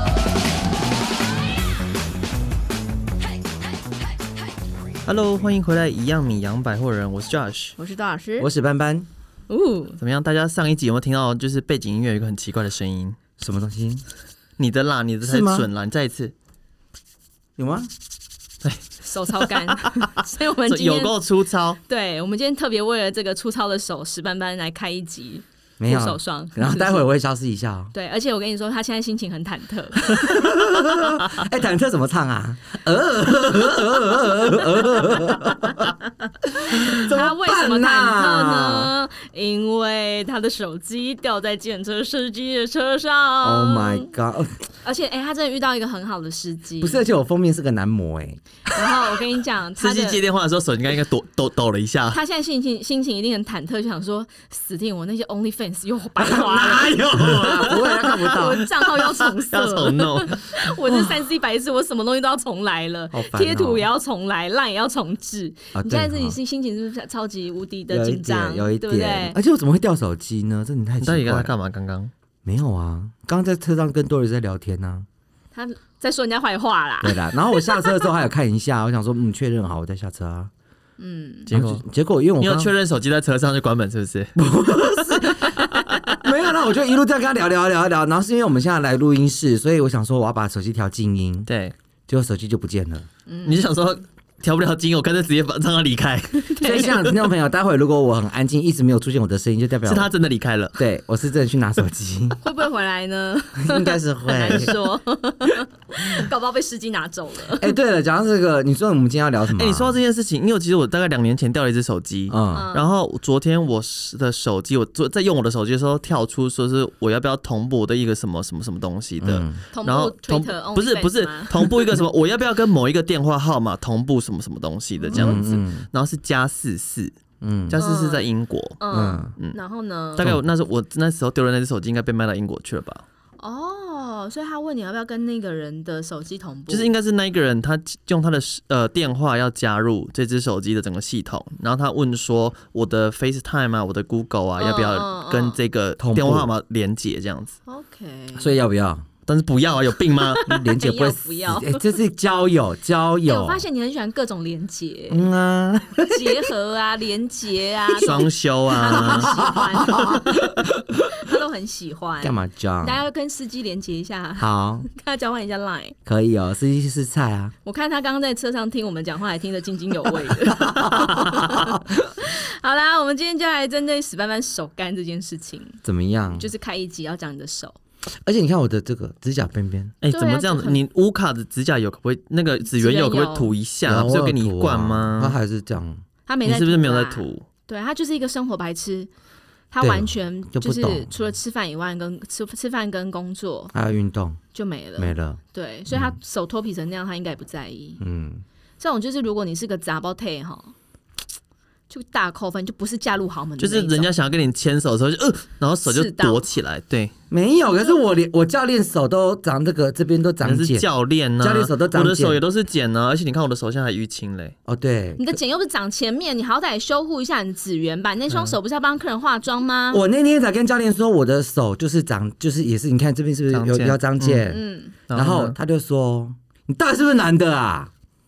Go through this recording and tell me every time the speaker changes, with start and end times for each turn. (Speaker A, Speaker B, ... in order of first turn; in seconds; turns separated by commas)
Speaker A: 5.0-7.8, Speaker B: 7.8-8.5, Speaker C: 8.4-9.1, Speaker B: 9.5-10.0, Speaker A: 10.0-13.2, Speaker C: 13.4-14.0, Speaker A: 14.6-16.3, Speaker C: 15.2-15.7, Speaker C: 17.6-17.9, Speaker A: 18.6-20.1, Speaker B: 19.0-21.2, Speaker A: 20.6-21.8, Speaker B: 21.8-27.0, Speaker C: 25.8-27.9, Speaker B: 27.9-30.7, Speaker C: 30.0-38.9, Speaker B: 36.6-44.1, Speaker C: 43.4-44.6, Speaker B: 44.8-47.0, Speaker C: 46.8-48.9, Speaker B: 48.7-50.2, Speaker A: 49.8-52.2, Speaker B: 52.1-69.4, Speaker C: 56.2-58.7, Speaker A: 57.1-58.4, Speaker A: 58.9-60.5, Speaker C: 63.1-63.9, Speaker C: 65.7-66.4, Speaker C: 67.9-71.5, Speaker A: 71.0-72.1, Speaker C: 72.4-75.1, Speaker B: 75.5-78.1, Speaker C: 77.0-80.5, Speaker B: 81.0-81.5, Speaker A: 81.5-81.8, Speaker C: 81.5-82.7, Speaker A: 82.4-84.4, Speaker C: 84.3-91.5, Speaker A: 85.0-86.2, Speaker A: 91.5-91.7, Speaker C: 92.1-93.1, Speaker B: 93.3-93.6, Speaker A: 93.4-97.2, Speaker B: 96.5-96.9, Speaker C: 96.6-100.1, Speaker A: 99.8-100.8, Speaker C: 100.8-102.4, Speaker B: 102.4-107.7, Speaker C: 103.6-104.7, Speaker A: 104.3-104.7, Speaker C: 107.6-110.0, Speaker A: 109.5-127.2, Speaker C: 112.3-112.7, Speaker B: 112.5-112.8, Speaker C: 119.2-119.6, Speaker B: 119.7-121.8, Speaker B: 125.0-125.6, Speaker C: 125.1-125.9, Speaker C: 127.4-127.8, Speaker A: 127.7-128.8, Speaker B: 127.7-128.3, Speaker B: 128.8-130.3, Speaker C: 128.9-129.3, Speaker A: 130.1-133.0, Speaker B: 133.4-136.9, Speaker A: 136.7-147.5, Speaker B: 144.6-145.6, Speaker C: 146.0-146.5, Speaker B: 147.7-148.5, Speaker C: 148.3-149.1, Speaker A: 149.3-150.4, Speaker B: 150.2-152.0, Speaker C: 150.4-153.6, Speaker B: 153.2-155.3, Speaker C: 155.1-156.5, Speaker B: 156.0-165.9, Speaker A: 158.0-160.2, Speaker C: 158.9-160.8, Speaker C: 162.2-163.0, Speaker C: 164.4-164.9, Speaker C: 166.0-167.5, Speaker B: 167.6-175.8, Speaker C: 170.6-171.8, Speaker A: 171.1-171.4, Speaker C: 175.8-176.5, Speaker B: 176.3-177.8, Speaker C: 178.2-179.9, Speaker A: 180.0-185.3, Speaker B: 180.1-180.8, Speaker B: 182.8-183.5, Speaker C: 183.9-186.0, Speaker B: 186.3-189.1, Speaker A: 186.4-187.4, Speaker B: 189.7-193.7, Speaker C: 189.8-191.1, Speaker C: 193.7-194.4, Speaker B: 194.5-198.0, Speaker C: 195.0-195.4, Speaker C: 198.0-198.4, Speaker B: 198.8-200.7, Speaker B: 201.9-204.1, Speaker A: 203.6-207.1, Speaker B: 205.8-206.4, Speaker C: 207.3-210.8, Speaker A: 210.4-214.5, Speaker C: 211.4-212.4, Speaker C: 214.7-215.3, Speaker B: 215.2-220.0, Speaker A: 218.3-218.5, Speaker C: 219.9-224.6, Speaker A: 223.5-224.5, Speaker B: 224.5-224.9, Speaker A: 225.1-225.6, Speaker C: 225.1-227.9